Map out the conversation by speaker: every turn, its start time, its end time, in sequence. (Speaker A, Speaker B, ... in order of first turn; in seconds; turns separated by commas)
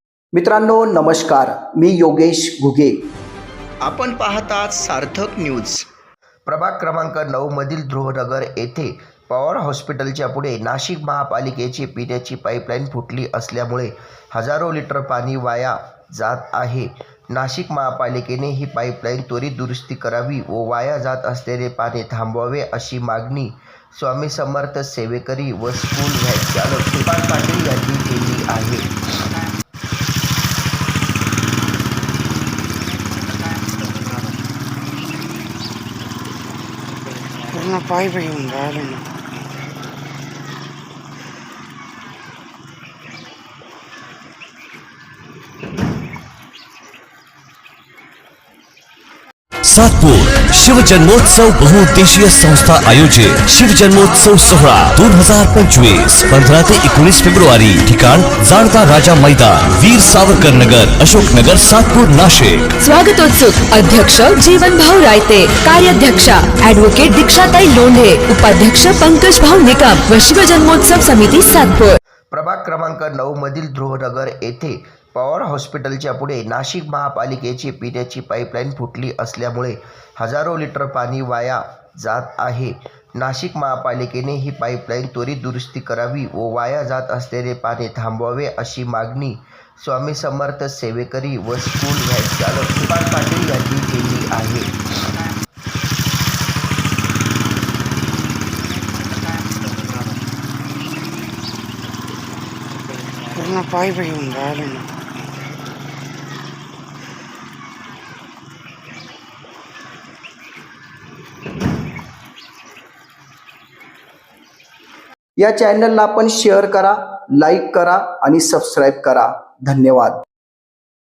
Speaker A: 0.3-3.0, Speaker B: 3.8-5.8, Speaker B: 6.5-28.9, Speaker C: 37.6-39.0, Speaker D: 49.6-62.6, Speaker E: 62.8-72.0, Speaker B: 72.3-94.7, Speaker C: 103.4-104.9, Speaker A: 115.4-120.2